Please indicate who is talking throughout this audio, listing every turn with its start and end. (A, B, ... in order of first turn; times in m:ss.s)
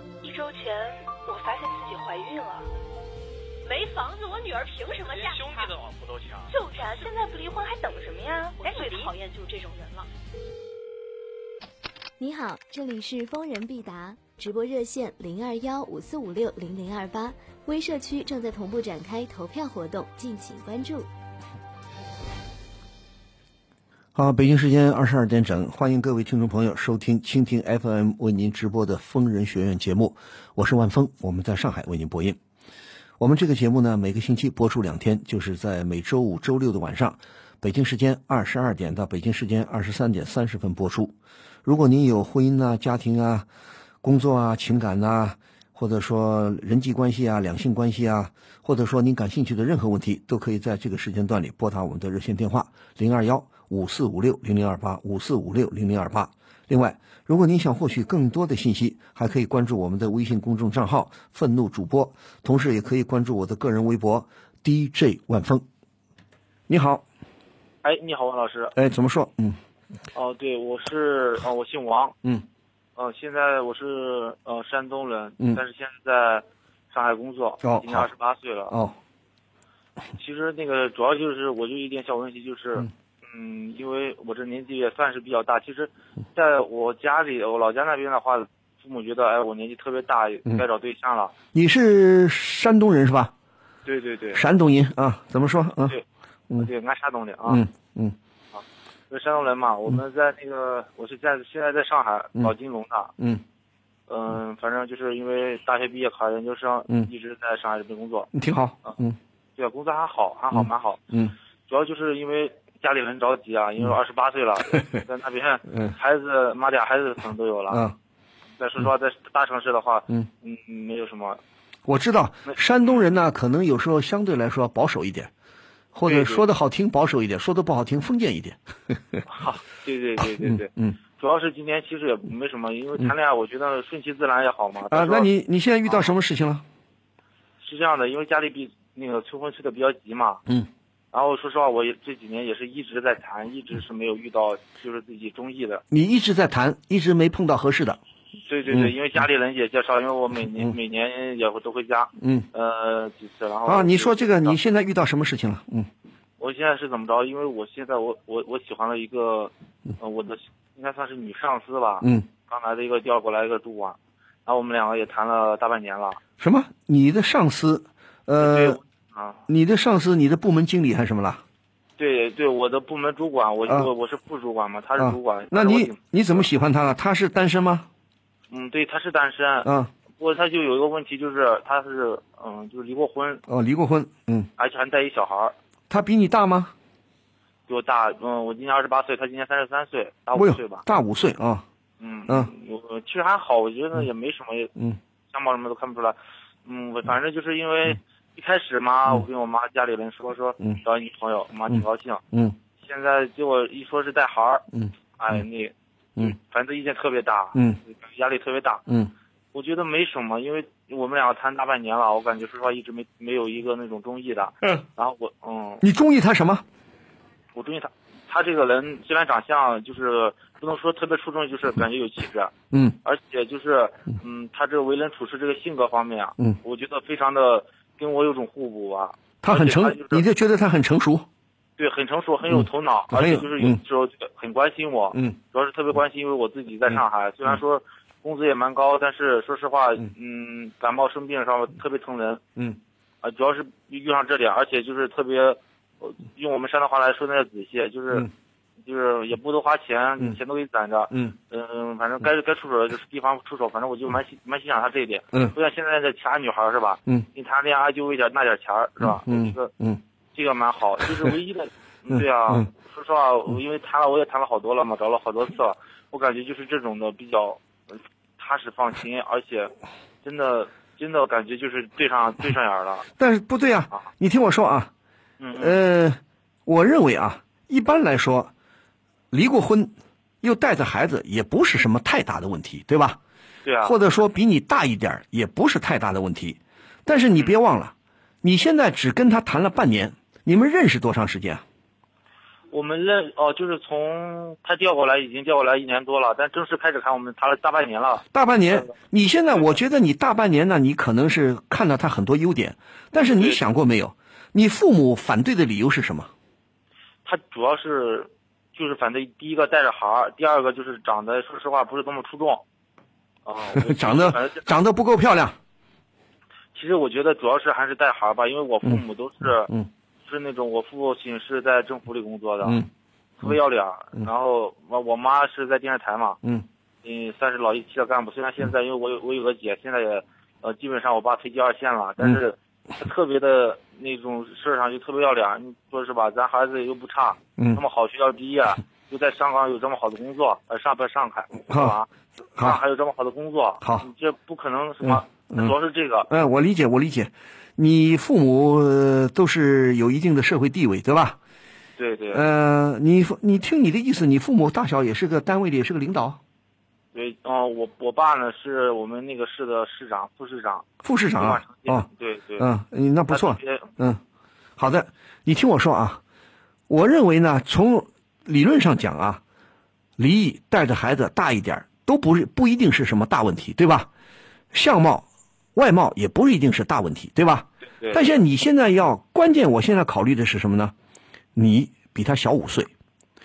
0:00.2-0:02.7 A
0:03.6-0:05.8 A
0:06.5-0:10.1 A
0:12.2-0:21.1 B
0:24.1-0:32.4 C
0:33.2-0:43.5 C
0:44.0-1:05.6 C
1:06.7-1:07.0 C
1:07.8-1:08.7 D
1:08.8-1:09.6 C
1:10.1-1:12.2 D
1:13.0-1:18.8 D
1:17.6-1:18.1 C
1:18.7-1:19.0 C
1:20.2-1:31.3 D
1:31.5-1:33.3 C
1:33.8-1:34.4 D
1:34.3-1:36.0 C
1:36.6-1:37.6 D
1:37.4-1:38.2 C
1:38.5-1:43.1 D
1:43.2-1:43.4 C
1:44.1-1:48.3 D
1:48.3-1:49.2 C
1:49.6-1:51.0 D
1:50.5-1:51.3 C
1:51.7-1:57.8 D
1:57.7-1:58.0 C
1:58.6-2:01.4 D
2:01.8-2:05.3 C
2:05.9-2:09.2 C
2:06.0-2:06.4 D
2:09.3-2:15.3 D
2:10.4-2:11.0 C
2:14.9-2:16.6 C
2:17.6-2:20.4 D
2:21.1-2:25.8 D
2:25.9-2:28.0 C
2:28.5-2:34.6 D
2:28.7-2:28.9 C
2:32.2-2:32.5 C
2:33.7-2:35.9 C
2:36.4-2:46.2 D
2:42.0-2:42.3 C
2:46.4-2:48.8 C
2:48.4-2:49.4 D
2:49.5-2:51.4 C
2:52.0-2:56.5 D
2:55.0-2:57.9 C
2:58.5-3:03.4 D
2:59.6-2:59.9 C
3:03.5-3:04.5 C
3:04.6-3:05.5 D
3:05.9-3:06.7 C
3:07.7-3:10.8 D
3:10.3-3:11.6 C
3:12.0-3:14.7 D
3:15.3-3:22.2 D
3:21.7-3:22.6 C
3:22.8-3:28.8 D
3:29.5-3:35.8 D
3:35.8-3:36.6 C
3:37.5-3:50.2 D
3:42.7-3:43.0 C
3:49.4-3:51.3 C
3:51.8-4:02.4 D
3:52.5-3:53.8 C
4:03.2-4:08.3 D
4:08.8-4:19.7 D
4:19.0-4:20.0 C
4:20.3-4:27.6 D
4:22.1-4:22.6 C
4:28.4-4:33.1 D
4:33.2-4:34.9 C
4:35.4-4:35.8 D
4:35.6-4:38.5 C
4:39.3-4:43.2 C
4:43.6-4:44.0 D
4:43.8-4:51.6 C
4:52.7-4:58.2 D
4:58.3-5:06.3 C
5:03.1-5:03.7 D
5:07.2-5:12.6 D
5:13.4-5:14.7 D
5:13.8-5:15.6 C
5:16.7-5:19.7 D
5:20.2-5:22.8 D
5:22.6-5:22.9 C
5:23.4-5:26.4 D
5:27.0-5:46.3 D
5:43.8-5:44.1 C
5:45.0-5:45.7 C
5:46.3-5:51.4 C
5:52.0-5:52.4 D
5:52.3-5:56.4 C
5:57.1-6:02.7 D
6:01.0-6:02.1 C
6:02.6-6:04.2 C
6:03.3-6:03.9 D
6:04.8-6:06.2 C
6:06.9-6:09.4 C
6:10.2-6:14.1 C
6:14.7-6:20.9 C
6:18.0-6:18.3 D
6:21.5-6:22.9 C